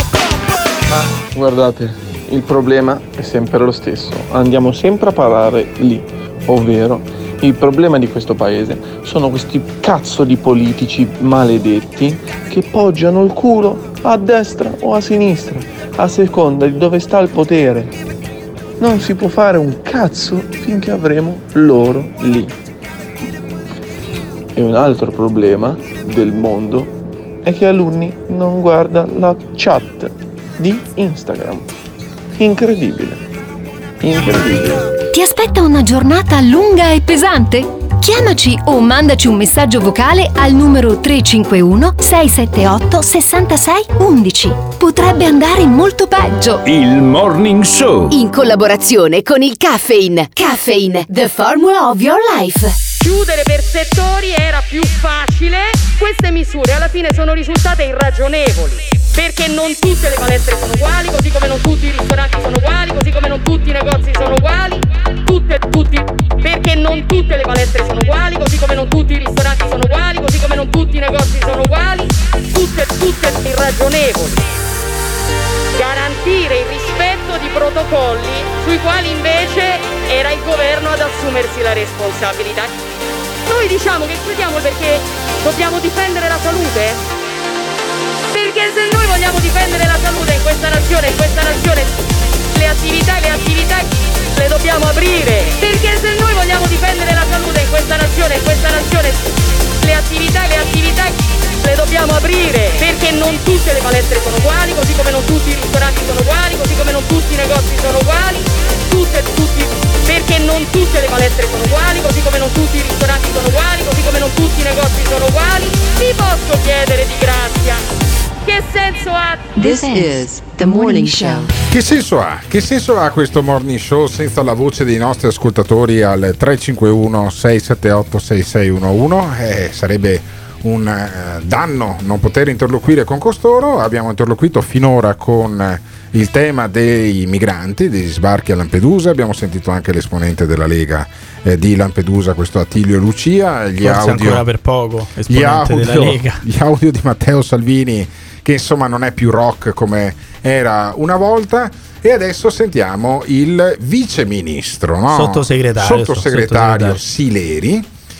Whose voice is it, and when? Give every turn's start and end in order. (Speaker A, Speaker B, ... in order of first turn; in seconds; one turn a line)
Speaker A: 1.1-17.9
Speaker A: 18.8-22.5
Speaker A: 24.6-26.9
Speaker A: 27.4-31.7
Speaker A: 32.4-33.2
Speaker A: 34.0-34.9
Speaker B: 35.3-46.5
Speaker B: 48.1-52.6
Speaker C: 53.0-74.4
Speaker C: 75.8-82.7
Speaker C: 83.5-87.0
Speaker C: 88.3-117.8
Speaker C: 118.5-119.7
Speaker D: 119.6-121.5
Speaker E: 121.7-144.4
Speaker F: 143.8-146.4
Speaker E: 145.3-157.9
Speaker F: 155.1-157.0